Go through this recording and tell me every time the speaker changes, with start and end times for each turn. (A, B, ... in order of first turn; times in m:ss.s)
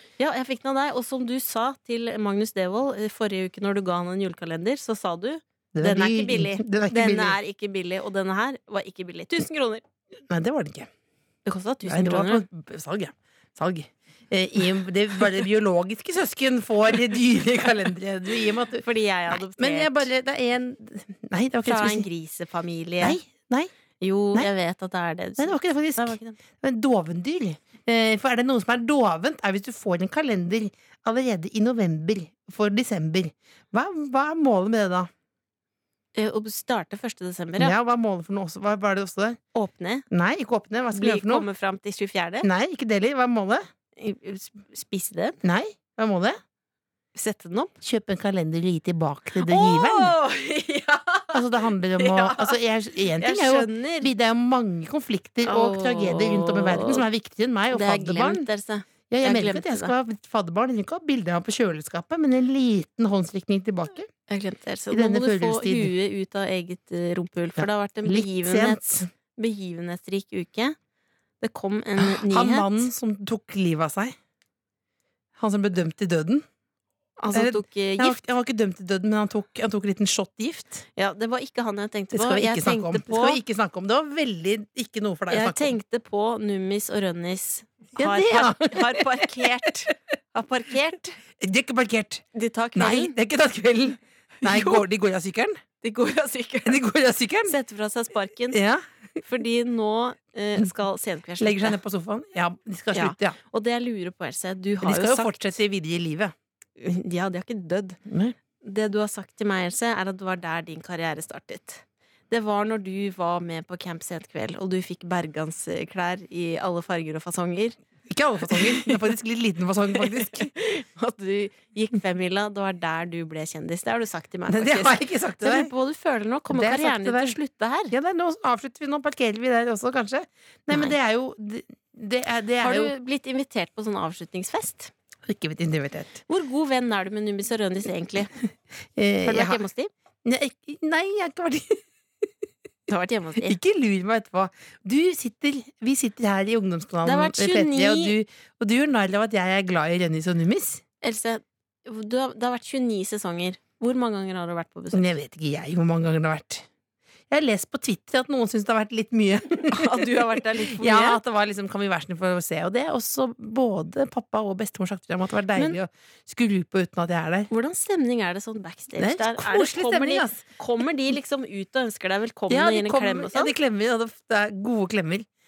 0:00.2-0:09.8 A
0:05.7-0:07.4 B
0:10.3-0:10.9 B
0:11.4-0:12.4 A
0:11.8-0:22.1 B
0:18.8-0:20.1 A
0:21.6-0:23.2 A
0:23.0-0:23.7 B
0:24.0-0:26.4 A
0:25.4-0:35.1 B
0:36.2-0:37.8 A
0:37.6-0:39.4 B
0:39.6-0:40.0 A
0:40.1-0:41.5 B
0:40.9-0:42.5 A
0:42.4-0:43.6 B
0:44.0-0:45.4 A
0:45.4-0:46.4 B
0:47.2-0:47.7 A
0:47.8-0:50.1 B
0:49.4-0:52.6 A
0:51.3-0:58.5 B
0:53.2-0:54.1 A
0:55.4-0:57.0 A
0:57.7-0:59.9 A
0:59.1-1:04.1 B
1:04.3-1:10.8 A
1:04.9-1:05.9 B
1:07.6-1:09.1 B
1:11.4-1:12.9 A
1:12.0-1:14.2 B
1:15.4-1:16.5 B
1:17.2-1:18.2 A
1:17.3-1:20.9 B
1:21.0-1:23.4 A
1:22.1-1:25.7 B
1:25.3-1:31.2 A
1:28.0-1:29.9 B
1:31.4-1:32.2 B
1:32.3-1:33.2 A
1:32.8-1:35.6 B
1:34.4-1:34.8 A
1:35.8-1:36.8 A
1:36.6-1:37.6 B
1:37.5-1:38.6 A
1:38.5-1:38.8 B
1:39.2-1:41.8 A
1:41.4-1:43.4 B
1:42.9-1:45.4 A
1:44.8-1:46.3 B
1:46.8-1:48.0 A
1:48.1-1:48.4 B
1:48.6-1:57.8 A
1:58.1-2:00.5 B
1:58.5-1:59.0 A
2:00.0-2:07.9 A
2:04.5-2:05.7 B
2:06.5-2:07.4 B
2:07.9-2:12.9 B
2:12.6-2:14.9 A
2:15.3-2:16.2 B
2:16.3-2:18.3 A
2:19.0-2:19.6 B
2:19.3-2:19.9 A
2:20.2-2:21.8 B
2:22.9-2:23.6 A
2:23.4-2:30.8 B
2:27.0-2:28.2 A
2:31.0-2:35.1 A
2:34.9-2:36.7 B
2:37.3-2:47.5 B
2:39.6-2:41.2 A
2:47.5-2:53.5 A
2:49.0-2:50.4 B
2:52.5-2:55.3 B